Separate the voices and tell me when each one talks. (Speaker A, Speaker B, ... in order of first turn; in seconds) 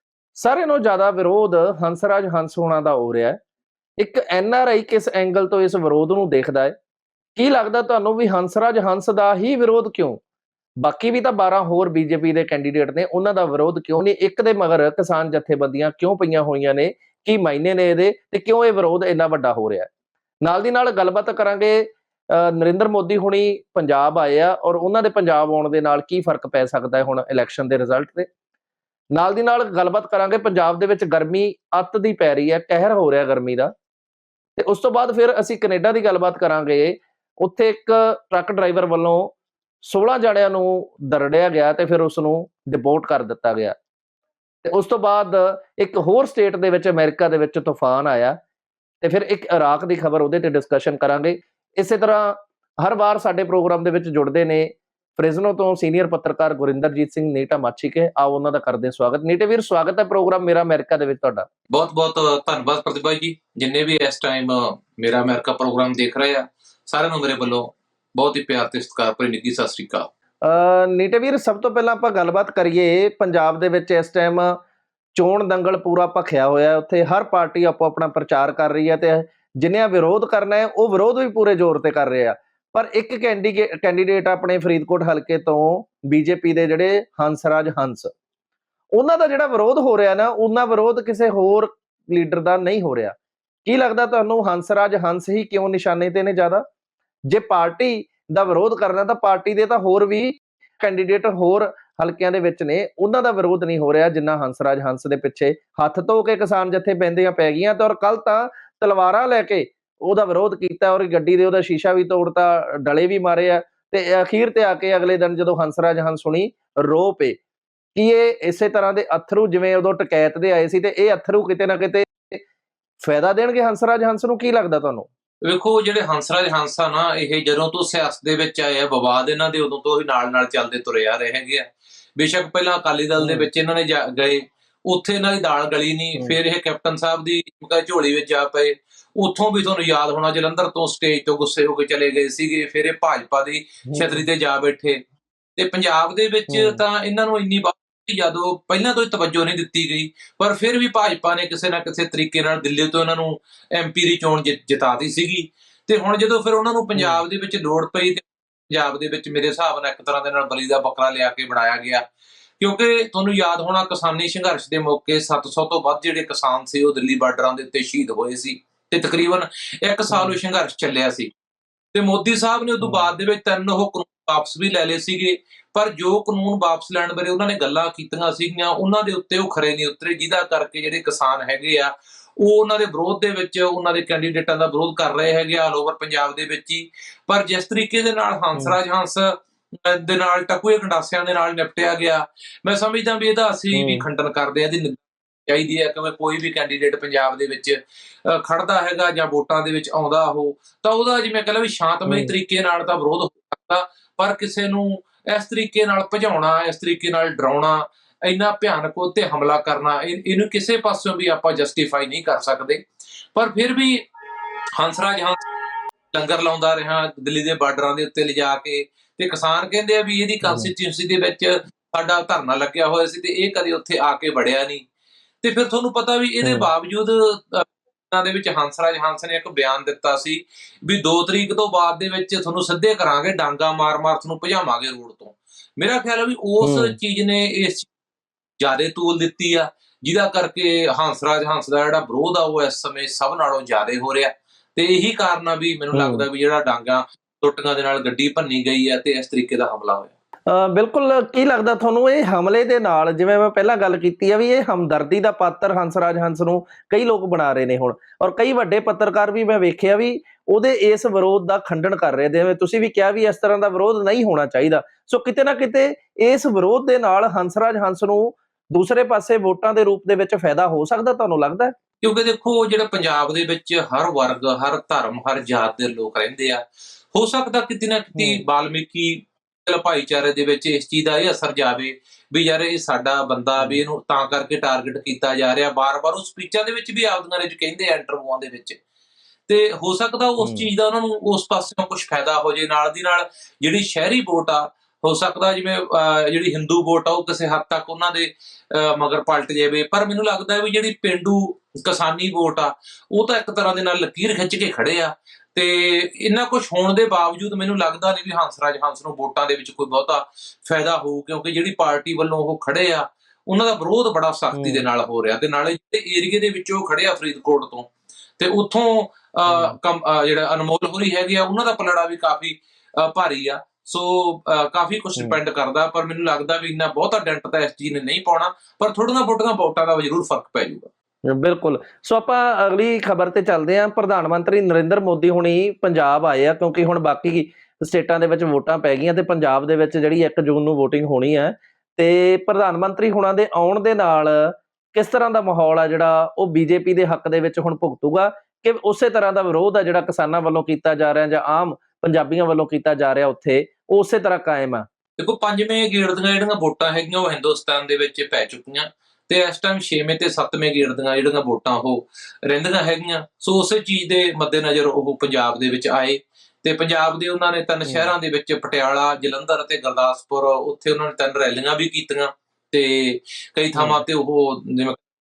Speaker A: 0.4-3.4, 4.0-6.8, 7.4-10.2, 10.8-19.9, 20.4-28.3, 29.2-33.7, 34.6-43.8, 44.6-48.4, 49.0-61.5, 70.5-74.6, 75.2-88.1, 89.0-96.6, 97.3-117.4, 118.0-122.4, 123.0-125.1, 133.2-133.5, 143.9-144.3, 146.5-146.8, 156.9-157.2, 170.1-170.4, 172.8-173.1, 193.7-194.1, 202.1-202.3, 220.4-220.7, 226.4-226.7, 236.6-237.0, 245.9-246.2, 250.5-271.7, 278.2-278.4, 283.6-283.8, 290.4-290.7, 314.5-314.9, 319.5-319.8, 331.3-354.9, 367.9-368.1, 373.8-374.0
Speaker B: 61.7-70.1, 125.5-145.0, 145.6-162.0, 162.6-171.3, 171.9-212.8, 213.3-214.0, 214.8-215.4, 216.1-224.8, 225.4-237.9, 238.6-250.1, 272.0-276.6, 277.1-288.8, 289.5-330.9, 355.2-375.0